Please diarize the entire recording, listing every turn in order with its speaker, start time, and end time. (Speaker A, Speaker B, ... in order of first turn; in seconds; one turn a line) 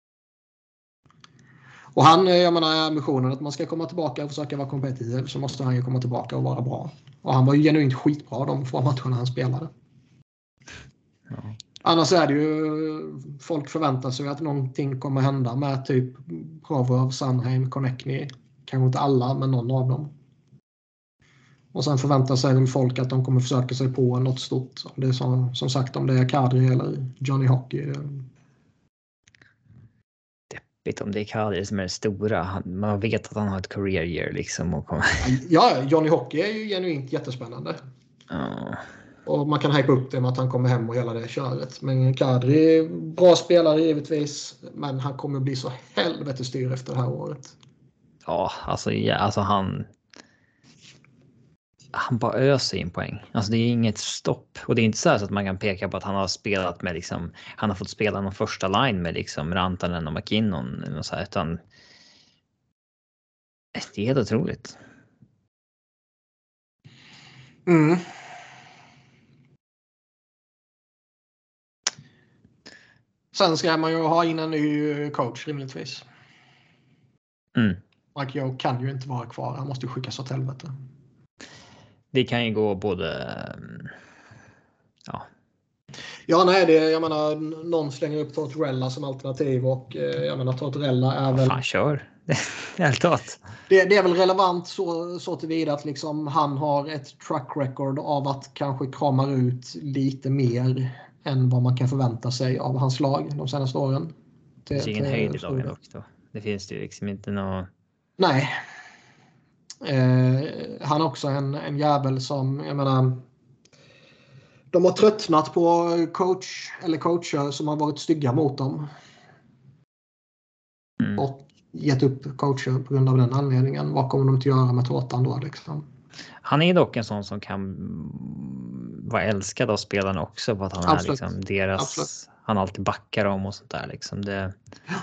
Speaker A: 1.9-9.7
Speaker A: 11.8-20.1
Speaker A: 21.7-28.2
Speaker B: 30.5-35.3
Speaker A: 35.2-37.8
Speaker B: 38.3-38.8
Speaker A: 39.2-47.5
Speaker B: 48.2-49.9
Speaker B: 51.9-61.6
Speaker B: 63.7-64.8
Speaker A: 67.7-68.1
Speaker A: 73.3-76.0
Speaker B: 77.5-77.8
Speaker A: 78.1-80.7
Speaker B: 82.1-83.9
Speaker A: 86.3-91.6
Speaker B: 91.3-93.4
Speaker A: 93.7-104.1
Speaker A: 104.7-105.7
Speaker B: 104.7-107.7
Speaker A: 108.2-108.6
Speaker A: 109.8-113.2
Speaker A: 114.7-118.9
Speaker A: 121.2-125.8
Speaker B: 126.4-134.5
Speaker A: 130.8-132.1